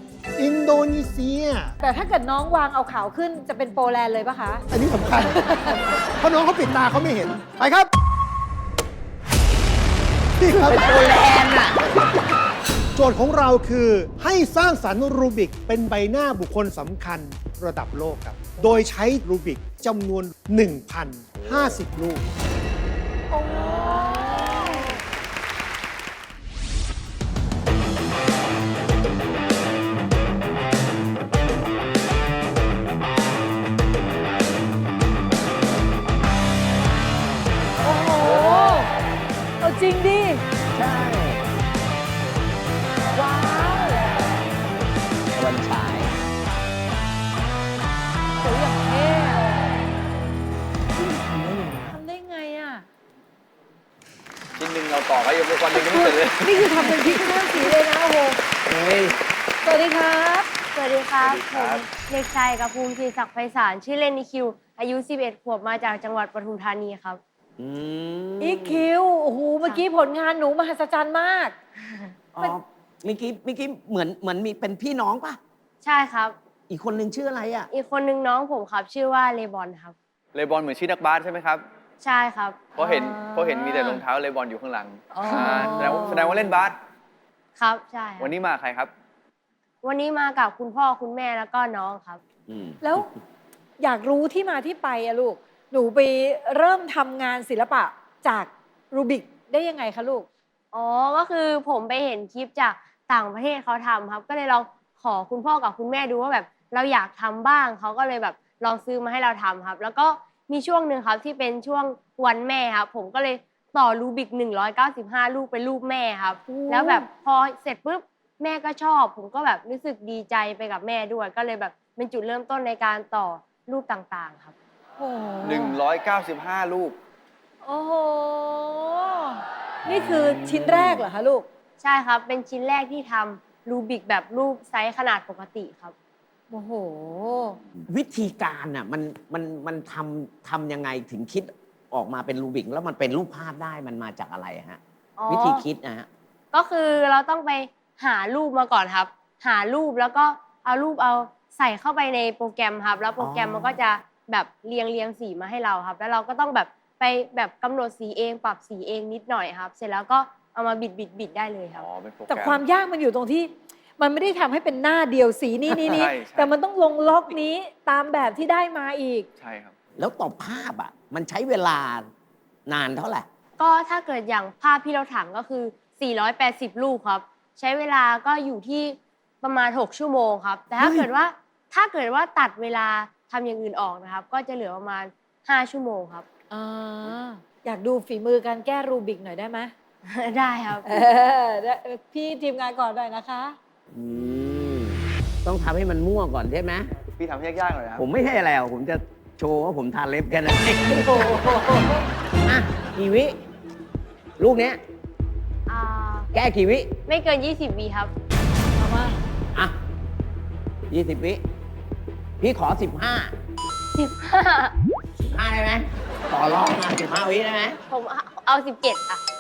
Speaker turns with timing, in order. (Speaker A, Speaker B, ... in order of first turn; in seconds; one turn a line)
Speaker A: 0.4-1.7
Speaker B: 1.8-4.6
Speaker A: 4.7-7.9
Speaker B: 5.2-5.8
Speaker A: 10.4-11.1
Speaker C: 10.5-11.9
Speaker A: 12.9-22.2
Speaker B: 23.4-24.8
Speaker B: 37.8-38.9
Speaker C: 38.2-38.8
Speaker B: 39.6-40.4
Speaker C: 40.7-41.4
Speaker B: 43.1-44.0
Speaker C: 45.3-46.1
Speaker B: 48.4-49.4
Speaker C: 51.1-52.0
Speaker B: 51.9-52.9
Speaker D: 54.5-56.6
Speaker B: 55.7-58.4
Speaker C: 58.6-59.1
Speaker B: 59.6-60.5
Speaker E: 60.7-67.2
Speaker D: 61.2-61.8
Speaker C: 67.6-68.8
Speaker B: 68.4-71.5
Speaker C: 72.3-75.4
Speaker E: 75.8-76.3
Speaker C: 76.7-77.7
Speaker E: 77.7-79.9
Speaker D: 80.3-81.6
Speaker E: 82.0-82.6
Speaker D: 82.8-86.8
Speaker B: 82.8-84.0
Speaker B: 85.1-86.6
Speaker E: 87.6-88.3
Speaker D: 88.2-88.9
Speaker E: 89.8-92.2
Speaker C: 92.5-92.8
Speaker B: 92.8-93.1
Speaker B: 93.8-100.2
Speaker E: 100.7-124.5
Speaker B: 116.5-117.1
Speaker B: 125.0-125.8
Speaker D: 125.4-127.0
Speaker B: 127.6-131.4
Speaker C: 129.9-131.0
Speaker E: 131.8-135.9
Speaker B: 136.5-137.6
Speaker C: 137.8-146.1
Speaker E: 145.2-145.6
Speaker E: 146.5-161.8
Speaker C: 153.2-153.8
Speaker D: 161.7-162.6
Speaker B: 162.3-169.3
Speaker D: 165.7-166.5
Speaker D: 169.4-169.7
Speaker C: 170.0-172.1
Speaker C: 172.7-173.2
Speaker E: 173.6-186.2
Speaker A: 180.8-181.1
Speaker B: 186.5-189.7
Speaker E: 190.0-190.9
Speaker B: 190.8-193.6
Speaker C: 193.9-196.9
Speaker D: 197.2-198.0
Speaker C: 198.0-201.7
Speaker B: 200.8-202.0
Speaker C: 202.4-203.3
Speaker C: 204.4-204.8
Speaker E: 205.7-206.3
Speaker C: 206.3-206.9
Speaker E: 207.1-208.1
Speaker B: 208.8-209.2
Speaker C: 210.9-211.4
Speaker C: 212.4-213.3
Speaker E: 213.9-214.8
Speaker C: 215.2-217.8
Speaker E: 217.9-219.2